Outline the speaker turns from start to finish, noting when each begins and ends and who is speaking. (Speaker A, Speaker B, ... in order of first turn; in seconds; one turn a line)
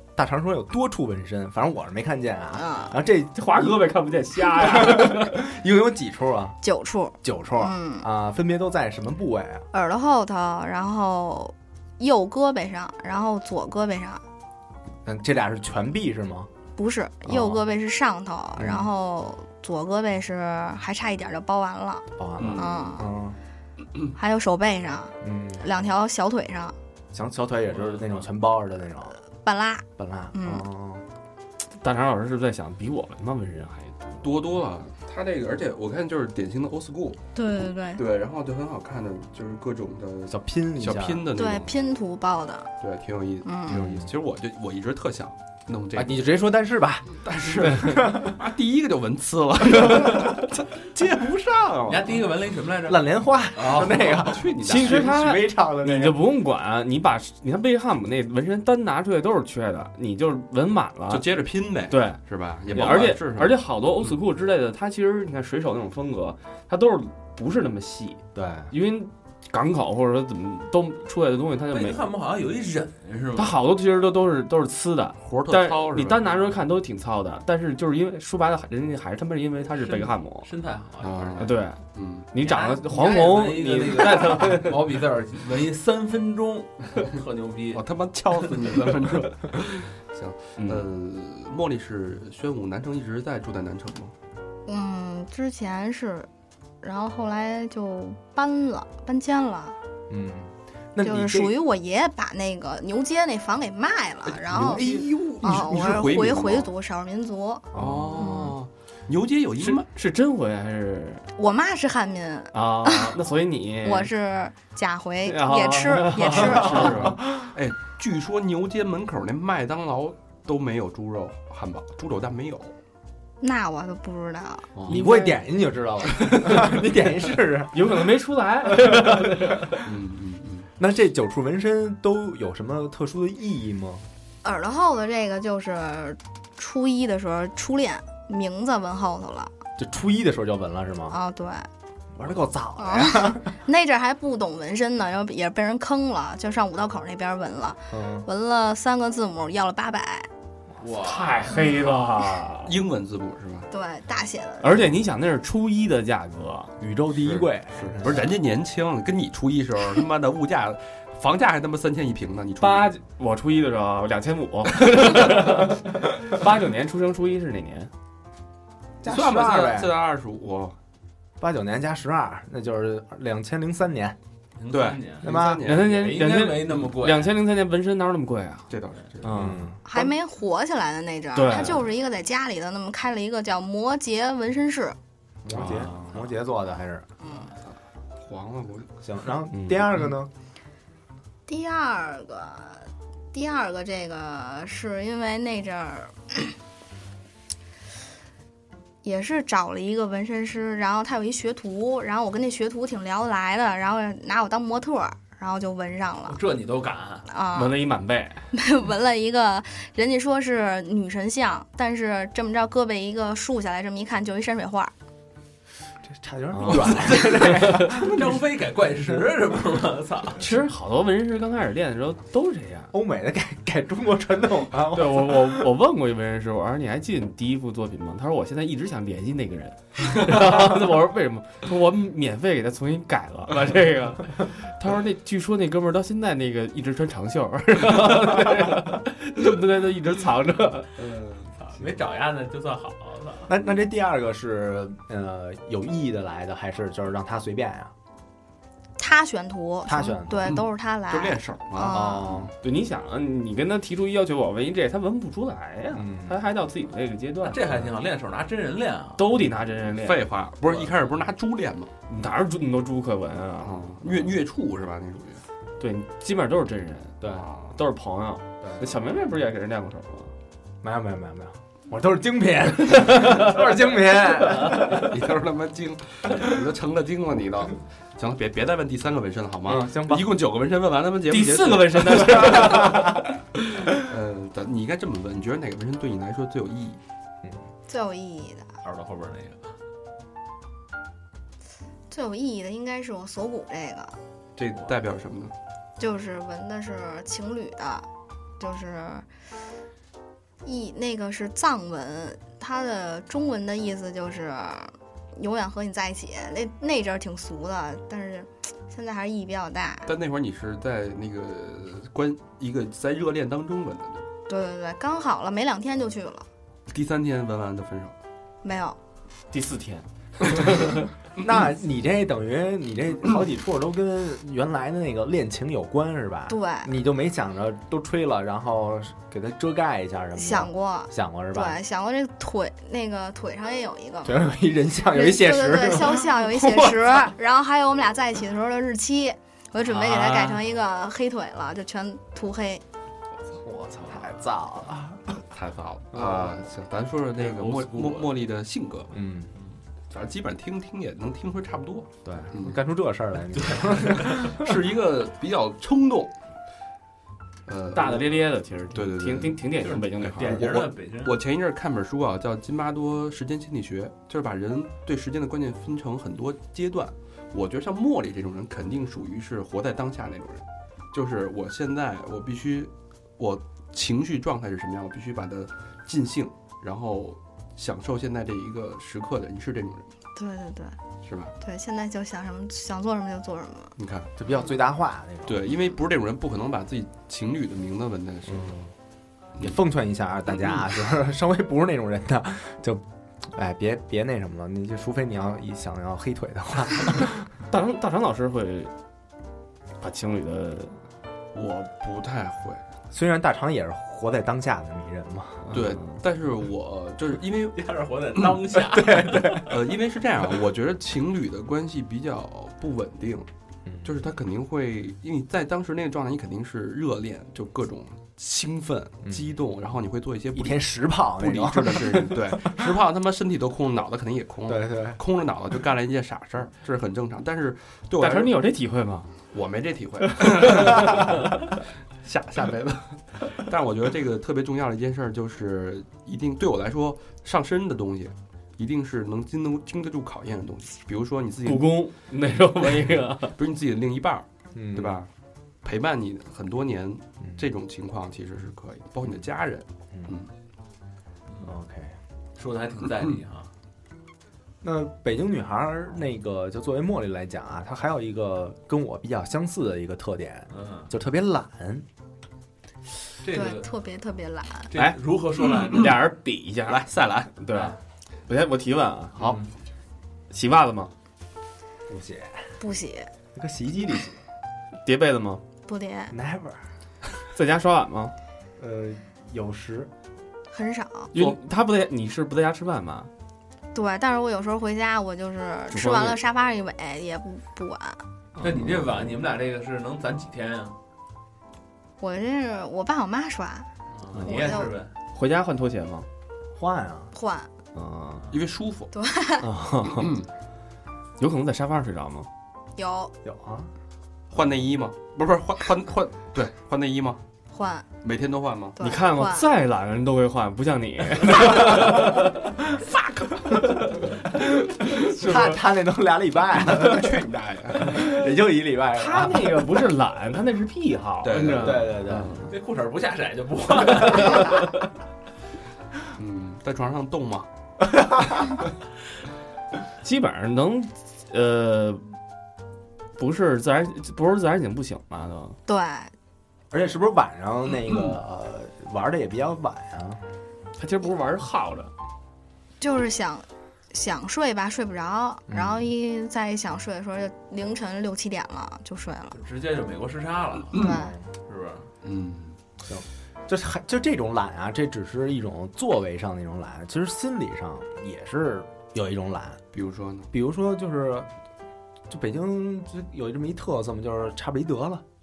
Speaker A: 0.1-3.9
Speaker B: 2.5-2.9
Speaker C: 3.3-5.4
Speaker A: 4.5-6.6
Speaker B: 6.6-8.1
Speaker A: 7.2-9.7
Speaker B: 9.7-14.2
Speaker A: 15.0-16.5
Speaker B: 16.8-23.1
Speaker A: 17.3-17.6
Speaker A: 18.6-18.9
Speaker A: 22.2-23.4
Speaker D: 22.4-22.8
Speaker B: 24.1-26.7
Speaker A: 25.2-25.7
Speaker A: 27.1-29.2
Speaker B: 29.4-30.6
Speaker A: 30.0-31.0
Speaker C: 31.8-34.3
Speaker D: 34.2-37.3
Speaker B: 37.3-38.0
Speaker D: 37.9-41.7
Speaker A: 40.3-41.3
Speaker B: 41.4-42.7
Speaker D: 42.8-46.2
Speaker B: 43.4-43.8
Speaker A: 43.7-44.1
Speaker A: 45.9-48.4
Speaker D: 47.2-52.2
Speaker E: 51.9-54.3
Speaker A: 52.9-56.2
Speaker D: 53.6-55.1
Speaker C: 54.6-61.2
Speaker D: 61.1-64.1
Speaker C: 61.9-62.2
Speaker C: 62.7-72.0
Speaker A: 68.3-68.7
Speaker E: 71.7-73.6
Speaker C: 73.3-80.5
Speaker D: 75.2-76.3
Speaker E: 79.7-81.5
Speaker D: 81.0-82.3
Speaker C: 81.4-81.8
Speaker C: 82.3-85.0
Speaker E: 82.4-87.8
Speaker D: 87.7-94.1
Speaker C: 90.6-90.9
Speaker B: 94.7-96.3
Speaker B: 96.8-99.8
Speaker A: 100.1-101.6
Speaker B: 101.0-104.9
Speaker D: 104.5-106.7
Speaker A: 104.5-105.8
Speaker B: 105.4-108.5
Speaker A: 107.7-108.4
Speaker D: 107.7-109.9
Speaker C: 109.6-111.2
Speaker B: 111.4-113.2
Speaker C: 112.5-114.1
Speaker B: 113.8-117.0
Speaker C: 115.2-117.2
Speaker D: 116.7-122.8
Speaker A: 116.8-117.5
Speaker B: 123.4-124.7
Speaker D: 124.7-125.0
Speaker A: 124.8-128.0
Speaker C: 127.7-129.8
Speaker A: 128.7-129.7
Speaker D: 129.8-130.7
Speaker A: 130.8-134.0
Speaker B: 134.4-139.5
Speaker A: 139.8-141.2
Speaker B: 141.1-141.7
Speaker A: 142.1-143.5
Speaker B: 142.8-150.3
Speaker A: 147.9-148.3
Speaker E: 150.8-151.7
Speaker C: 151.0-152.8
Speaker D: 152.6-153.7
Speaker B: 153.7-154.8
Speaker C: 154.6-156.7
Speaker A: 156.8-158.3
Speaker D: 157.1-162.9
Speaker C: 162.6-167.9
Speaker A: 169.0-169.9
Speaker D: 169.0-170.8
Speaker A: 171.4-174.2
Speaker E: 174.6-177.4
Speaker D: 174.7-176.1
Speaker A: 175.2-175.6
Speaker C: 175.6-178.7
Speaker D: 178.7-179.6
Speaker C: 179.2-179.7
Speaker A: 179.3-179.8
Speaker B: 179.8-185.0
Speaker C: 181.3-181.9
Speaker A: 185.4-187.1
Speaker D: 185.5-186.2
Speaker C: 185.5-185.9
Speaker B: 187.2-187.5
Speaker D: 187.7-188.9
Speaker A: 189.0-190.3
Speaker C: 189.5-189.9
Speaker B: 191.5-196.5
Speaker B: 199.0-206.4
Speaker E: 206.3-207.3
Speaker B: 207.3-207.8
Speaker C: 207.5-208.4
Speaker B: 208.5-214.9
Speaker A: 216.1-218.3
Speaker C: 216.6-217.9
Speaker E: 216.9-220.4
Speaker C: 220.4-222.9
Speaker A: 222.9-225.7
Speaker C: 224.9-240.9
Speaker D: 241.0-241.5
Speaker E: 241.6-243.5
Speaker A: 243.5-247.9
Speaker B: 249.0-252.4
Speaker A: 249.8-250.6
Speaker D: 250.5-252.0
Speaker A: 251.9-252.5
Speaker C: 252.6-257.7
Speaker A: 255.9-256.4
Speaker E: 257.4-259.3
Speaker C: 259.2-260.3
Speaker D: 259.8-261.9
Speaker C: 262.1-264.1
Speaker D: 263.6-265.4
Speaker C: 265.8-270.3
Speaker A: 270.8-275.1
Speaker C: 273.1-273.5
Speaker D: 274.7-283.0
Speaker A: 279.6-280.3
Speaker C: 281.3-283.4
Speaker D: 283.8-287.0
Speaker B: 287.9-288.7
Speaker E: 288.8-289.8
Speaker B: 292.1-294.2
Speaker D: 294.6-295.5
Speaker B: 296.0-298.1
Speaker B: 298.6-299.3
Speaker B: 300.6-310.1
Speaker D: 310.1-314.3
Speaker B: 314.5-316.4
Speaker D: 316.9-318.1
Speaker B: 318.6-319.0
Speaker C: 319.5-321.1
Speaker A: 321.4-331.8
Speaker B: 326.5-326.9
Speaker B: 330.4-334.5
Speaker A: 334.2-337.3
Speaker B: 335.1-342.8
Speaker E: 339.9-340.6
Speaker A: 343.6-345.4
Speaker D: 345.5-349.1
Speaker A: 346.1-346.5
Speaker E: 347.4-348.4
Speaker A: 349.1-349.5
Speaker D: 350.1-352.8
Speaker A: 352.2-354.8
Speaker E: 353.6-354.3
Speaker D: 353.9-356.3
Speaker D: 357.6-359.7
Speaker C: 357.9-360.7
Speaker E: 359.8-361.3
Speaker D: 360.2-380.1
Speaker B: 380.4-381.0
Speaker D: 381.2-381.5
Speaker B: 381.6-383.9
Speaker D: 384.0-384.3
Speaker A: 384.4-385.7
Speaker D: 385.4-388.8
Speaker A: 388.5-388.9
Speaker A: 389.6-397.5
Speaker C: 397.7-398.9
Speaker C: 400.0-401.0
Speaker D: 401.5-402.8
Speaker A: 403.1-405.7
Speaker D: 405.7-408.6
Speaker E: 407.7-409.6
Speaker A: 408.9-409.7
Speaker D: 409.2-413.5
Speaker A: 413.9-414.1
Speaker D: 414.0-428.6
Speaker A: 419.3-419.5
Speaker A: 420.5-422.9
Speaker A: 424.7-425.2
Speaker C: 428.2-429.3
Speaker D: 429.5-431.7
Speaker C: 430.4-431.3
Speaker D: 432.2-442.0
Speaker C: 441.6-443.6
Speaker D: 443.6-445.3
Speaker A: 444.7-445.2
Speaker D: 445.8-450.5
Speaker A: 451.6-452.1
Speaker E: 452.6-453.7
Speaker A: 454.8-462.1
Speaker E: 460.7-461.1
Speaker E: 463.4-463.9
Speaker B: 463.5-464.9
Speaker E: 464.9-466.2
Speaker C: 464.9-465.2
Speaker C: 465.9-469.6
Speaker D: 466.9-467.5
Speaker C: 470.5-471.1
Speaker A: 472.1-472.7
Speaker B: 472.8-473.3
Speaker A: 473.5-474.4
Speaker C: 475.0-475.6
Speaker B: 475.9-476.3
Speaker A: 476.3-476.8
Speaker C: 477.5-478.3
Speaker A: 478.8-480.1
Speaker B: 480.7-481.3
Speaker C: 481.3-483.3
Speaker B: 483.9-488.2
Speaker C: 485.9-486.4
Speaker E: 488.6-490.9
Speaker C: 488.6-488.9
Speaker B: 492.2-494.9
Speaker E: 494.1-495.1
Speaker C: 494.4-494.7
Speaker C: 495.3-496.3
Speaker A: 496.7-497.3
Speaker B: 497.3-497.7
Speaker C: 497.9-498.5
Speaker D: 498.5-499.1
Speaker B: 499.1-499.7
Speaker C: 499.6-500.3
Speaker D: 500.1-500.5
Speaker C: 501.4-502.5
Speaker B: 502.9-503.3
Speaker A: 503.4-503.9
Speaker D: 504.5-507.4
Speaker B: 507.7-508.1
Speaker D: 508.2-509.0
Speaker B: 508.9-509.7
Speaker C: 509.0-512.7
Speaker A: 514.5-519.8
Speaker D: 516.7-518.3
Speaker C: 519.1-522.7
Speaker D: 521.4-522.2
Speaker A: 521.5-522.6
Speaker E: 522.7-524.9
Speaker D: 526.3-527.7
Speaker C: 530.2-532.2
Speaker C: 533.4-535.8
Speaker B: 535.9-536.3
Speaker A: 536.9-540.4
Speaker C: 541.0-542.1
Speaker B: 543.0-549.5
Speaker A: 545.7-546.0
Speaker E: 549.5-552.1
Speaker B: 550.9-551.3
Speaker A: 551.1-551.4
Speaker D: 552.2-552.8
Speaker A: 553.0-559.8
Speaker D: 559.9-560.5
Speaker A: 560.5-561.5
Speaker A: 562.3-565.2